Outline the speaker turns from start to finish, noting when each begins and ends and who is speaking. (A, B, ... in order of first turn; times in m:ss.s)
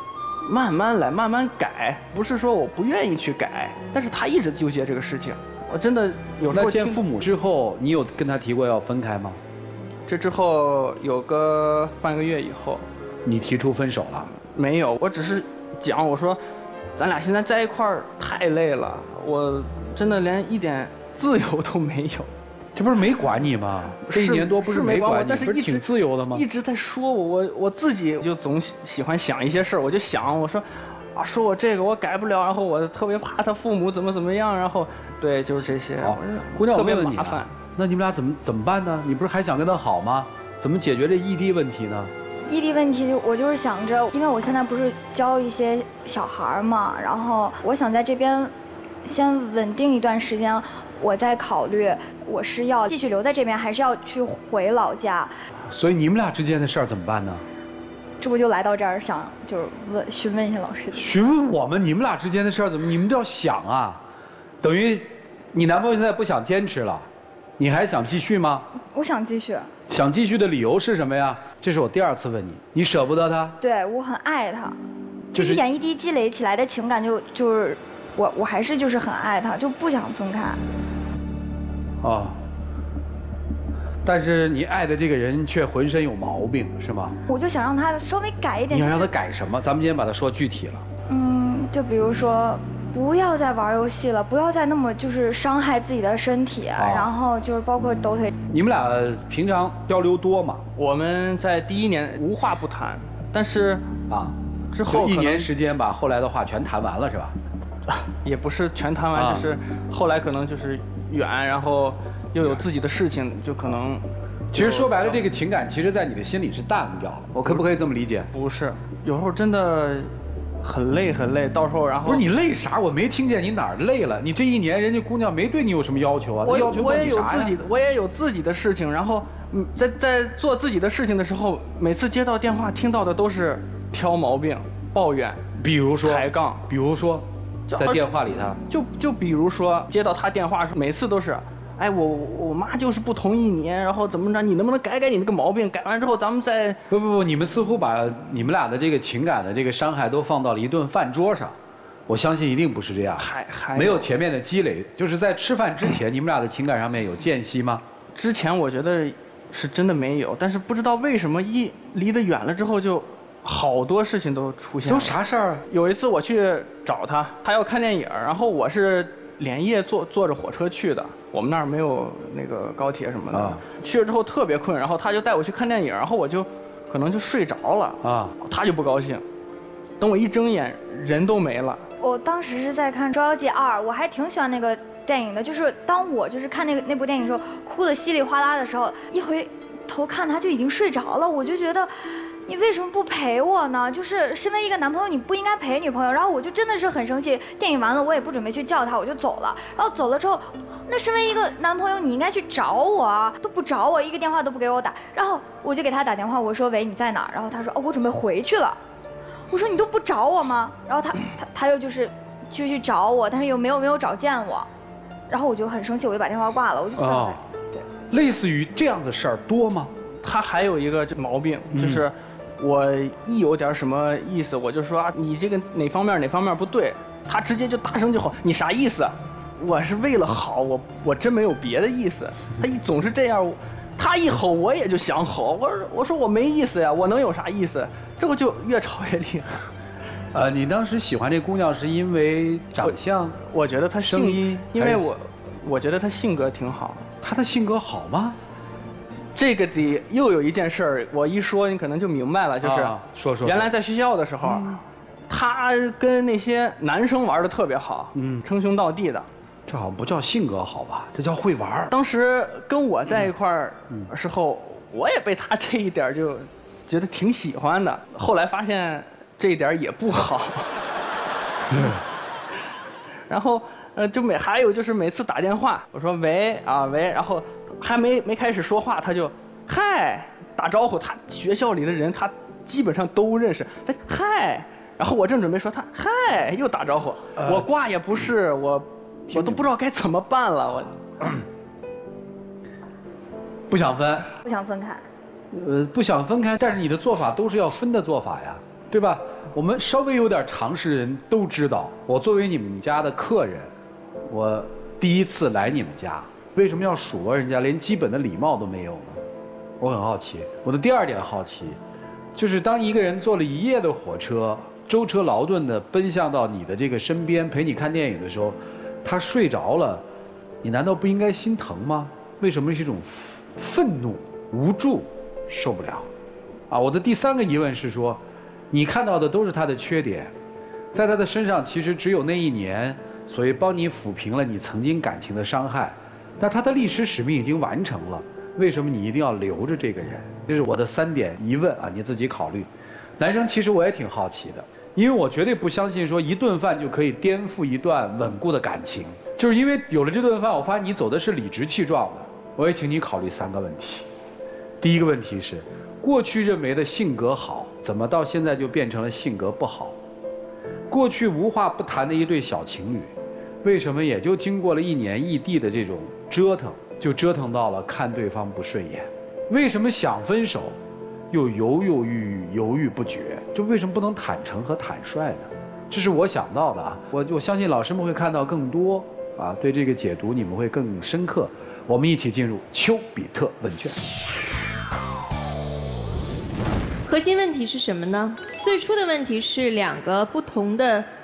0:00.4-0:07.0 A
0:06.5-0:09.4 B
0:10.1-0:12.9 A
0:13.2-0:14.3 B
0:14.3-0:16.4 A
0:17.0-0:22.3 A
0:22.8-0:26.5 B
0:24.1-0:37.6 A
0:36.0-0:42.1 B
0:42.5-0:48.5 C
0:49.0-0:55.3 C
0:55.7-0:57.4 B
0:58.2-1:01.1 C
1:00.9-1:04.0 B
1:04.6-1:07.1 B
1:07.6-1:08.7 B
1:08.9-1:09.7 C
1:09.9-1:13.6 B
1:13.6-1:14.8 C
1:15.3-1:20.6 C
1:15.3-1:15.6 B
1:22.0-1:22.4 B
1:24.0-1:27.2 B
1:27.3-1:29.1 C
1:28.7-1:30.8 B
1:31.1-1:38.3 C
1:36.8-1:37.1 B
1:38.5-1:40.6 B
1:40.8-1:43.9 A
1:44.1-1:44.4 B
1:44.7-1:45.5 A
1:44.9-1:47.4 B
1:47.9-1:55.3 A
1:49.1-1:49.5 B
1:54.5-1:58.3 B
1:58.3-2:02.2 A
2:02.0-2:07.6 B
2:06.4-2:15.5 A
2:15.6-2:18.6 B
2:16.0-2:16.6 A
2:17.7-2:26.8 A
2:26.9-2:31.6 B
2:32.1-2:37.8 B
2:33.2-2:34.1 A
2:38.1-2:59.2 A
2:44.9-2:45.6 B
2:53.3-2:53.6 B
2:58.0-2:58.4 B
3:00.0-3:01.8 A
3:02.0-3:11.9 C
3:12.5-3:28.8 C
3:29.5-3:34.7 C
3:35.3-3:37.8 C
3:37.0-3:37.4 B
3:38.1-3:39.9 B
3:40.2-3:59.7 A
3:41.7-3:42.1 B
4:00.3-4:03.4 B
4:03.5-4:07.1 A
4:04.0-4:05.1 B
4:07.2-4:08.4 B
4:09.4-4:19.3 A
4:12.6-4:13.7 B
4:14.4-4:14.8 B
4:18.2-4:18.4 B
4:19.7-4:21.9 B
4:21.9-4:30.9 A
4:31.7-4:32.0 B
4:31.7-4:32.0 A
4:33.3-4:51.0 A
4:47.4-4:47.7 B
4:49.3-4:49.6 B
4:53.7-4:54.3 B
4:54.4-4:55.0 C
4:55.5-5:03.7 B
5:04.3-5:09.2 B
5:09.8-5:11.8 B
5:12.4-5:20.0 B
5:20.6-5:26.1 B
5:26.7-5:30.3 B
5:30.9-5:54.1 B
5:54.8-6:00.0 B
6:00.9-6:10.8 B
6:11.3-6:24.0 B
6:27.1-6:31.1 D